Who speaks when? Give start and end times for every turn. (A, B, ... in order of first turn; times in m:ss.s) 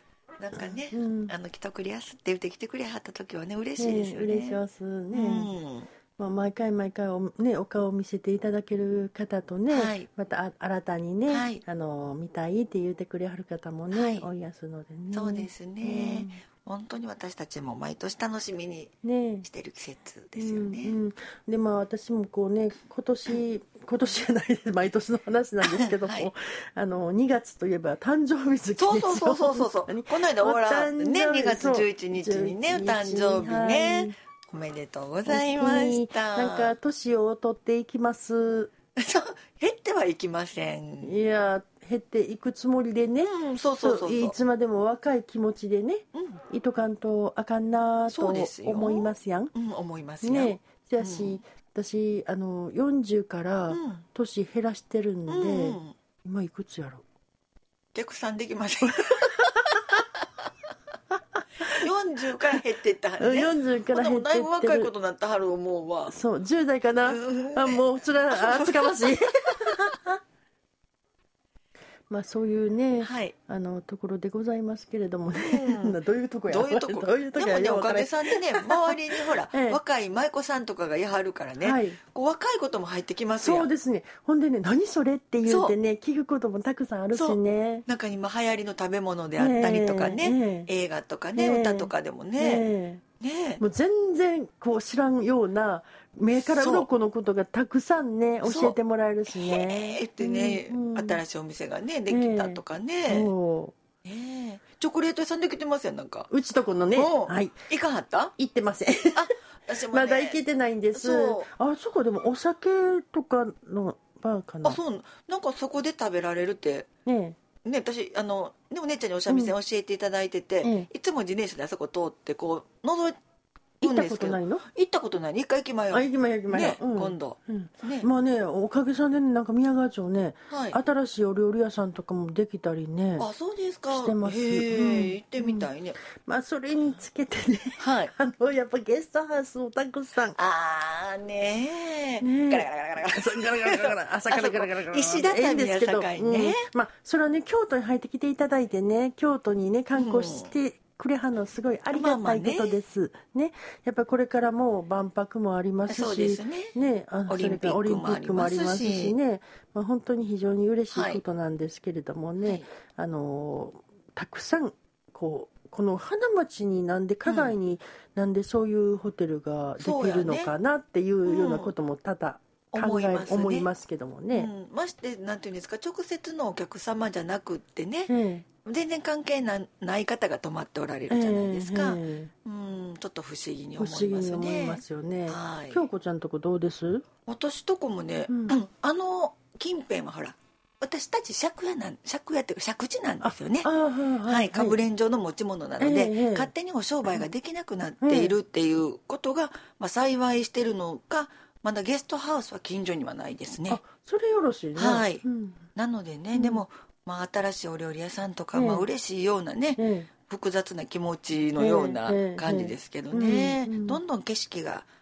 0:00.4-0:05.9 A
0:00.6-0:01.3 B
0:03.8-0:05.5 B
0:06.2-0:16.4 B
0:09.7-0:10.1 A
0:11.3-0:11.6 A
0:13.9-0:14.3 A
0:15.1-0:21.0 A
0:19.0-0:19.5 B
0:20.4-0:34.1 B
0:25.6-0:26.3 A
0:28.8-0:36.7 A
0:35.2-0:38.7 B
0:39.0-0:41.2 A
0:41.0-0:49.5 B
0:43.2-0:44.4 A
0:46.1-0:46.4 A
0:48.1-0:51.4 A
0:50.2-0:57.0 B
0:53.7-0:54.0 A
0:55.3-0:55.9 A
0:57.9-1:00.0 A
1:01.6-1:06.1 A
1:03.2-1:04.9 B
1:06.1-1:10.1 B
1:07.0-1:09.8 A
1:12.1-1:19.0 B
1:13.0-1:13.4 A
1:15.3-1:23.7 A
1:19.5-1:19.8 B
1:21.6-1:22.0 B
1:23.3-1:27.8 B
1:25.4-1:25.7 A
1:27.1-1:32.7 A
1:29.4-1:30.7 B
1:31.4-1:33.0 B
1:33.2-1:33.6 A
1:33.6-1:41.2 B
1:36.4-1:36.9 A
1:38.4-1:38.8 A
1:39.3-1:43.3 A
1:42.1-1:43.7 B
1:44.0-1:46.3 A
1:46.3-1:47.6 B
1:46.9-1:48.3 A
1:48.4-1:49.3 B
1:49.1-1:50.4 A
1:49.9-1:54.8 B
1:50.9-1:51.5 A
1:54.6-1:56.9 A
1:57.0-1:57.4 B
1:57.6-2:03.2 A
1:59.3-1:59.5 B
2:00.6-2:00.9 B
2:03.8-2:04.6 B
2:03.8-2:08.1 A
2:05.9-2:13.3 B
2:10.5-2:10.8 A
2:13.2-2:16.0 A
2:13.9-2:20.4 B
2:17.8-2:18.1 A
2:20.3-2:26.6 A
2:22.2-2:54.5 B
2:29.9-2:30.5 A
2:31.9-2:32.8 A
2:35.9-2:36.8 A
2:37.3-2:39.2 A
2:40.9-2:41.2 A
2:42.4-2:42.6 A
2:47.2-2:47.6 A
2:49.8-2:50.5 A
2:51.2-2:51.7 A
2:52.7-2:53.7 A
2:54.3-3:05.9 A
2:58.1-2:58.4 B
3:01.1-3:02.3 B
3:03.8-3:07.0 B
3:07.2-3:13.7 A
3:08.3-3:08.5 B
3:13.2-3:14.8 B
3:14.2-3:23.8 A
3:15.8-3:16.5 B
3:18.0-3:18.3 B
3:23.7-3:25.6 B
3:24.8-3:25.2 A
3:25.7-3:34.9 A
3:26.3-3:26.6 B
3:28.5-3:28.9 B
3:29.8-3:30.1 B
3:31.6-3:34.0 B